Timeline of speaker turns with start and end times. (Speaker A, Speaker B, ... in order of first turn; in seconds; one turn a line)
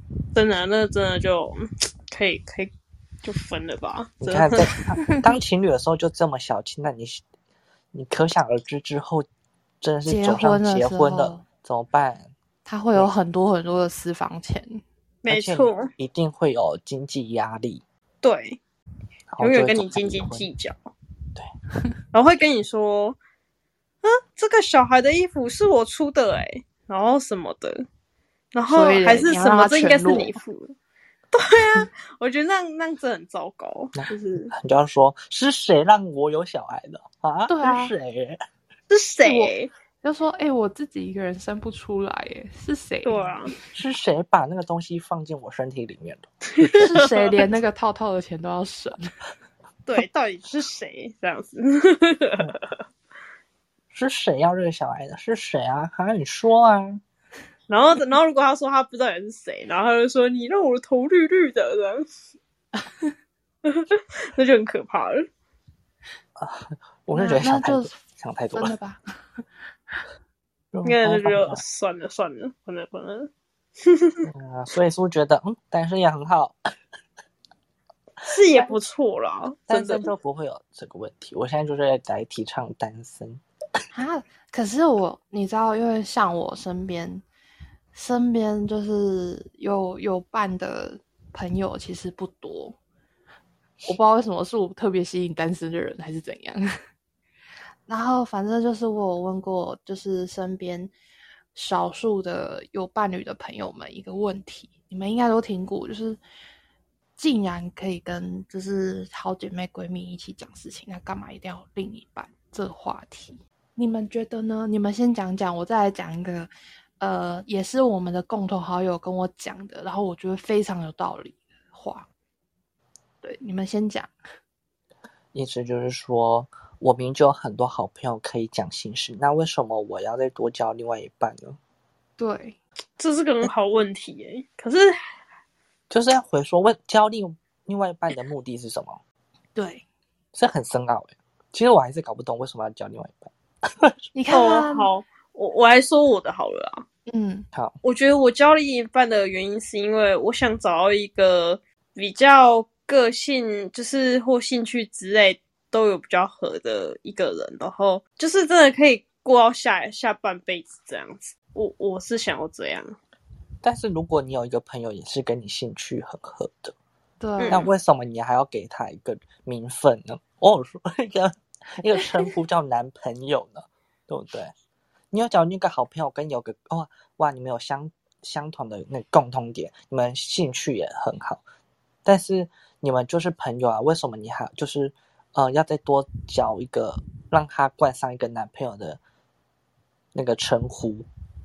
Speaker A: 0.3-2.7
Speaker A: 3.2-4.7
Speaker B: 4.2-7.2
Speaker B: 7.9-9.3
Speaker B: 9.8-12.3
Speaker C: 10.1-11.4
Speaker C: 12.7-14.8
Speaker A: 15.2-15.9
Speaker B: 15.3-17.8
Speaker A: 18.2-18.6
Speaker B: 19.3-20.5
Speaker A: 19.4-20.8
Speaker A: 22.1-23.2
Speaker A: 24.0-27.9
Speaker A: 28.5-30.8
Speaker C: 28.7-30.3
Speaker A: 31.3-34.5
Speaker B: 34.0-38.4
Speaker C: 37.5-37.9
Speaker A: 38.9-39.7
Speaker C: 39.2-43.3
Speaker A: 43.0-43.5
Speaker B: 43.7-46.9
Speaker A: 46.6-47.3
Speaker C: 46.8-49.1
Speaker A: 49.9-52.6
Speaker B: 53.9-57.0
Speaker A: 57.7-62.1
Speaker A: 63.6-65.3
Speaker B: 66.4-68.7
Speaker C: 67.1-67.9
Speaker C: 68.5-69.4
Speaker B: 70.7-71.6
Speaker A: 70.8-73.3
Speaker A: 73.8-74.3
Speaker B: 74.2-76.6
Speaker A: 78.2-80.1
Speaker B: 79.7-83.4
Speaker C: 83.9-87.2
Speaker C: 87.9-92.8
Speaker C: 93.9-96.7
Speaker C: 97.9-100.9
Speaker C: 101.5-106.2
Speaker C: 107.2-122.1
Speaker C: 123.2-124.2
Speaker B: 125.3-131.6
Speaker C: 132.2-132.6
Speaker A: 133.0-134.9
Speaker B: 135.9-139.0
Speaker C: 139.6-139.8
Speaker B: 140.3-143.9
Speaker C: 144.2-144.9
Speaker A: 144.3-146.8
Speaker C: 147.1-147.5
Speaker A: 147.8-162.9
Speaker B: 163.6-166.7
Speaker C: 167.2-167.7
Speaker A: 167.4-167.7
Speaker B: 167.5-174.5
Speaker B: 175.1-181.4
Speaker B: 182.1-189.0
Speaker B: 190.1-191.1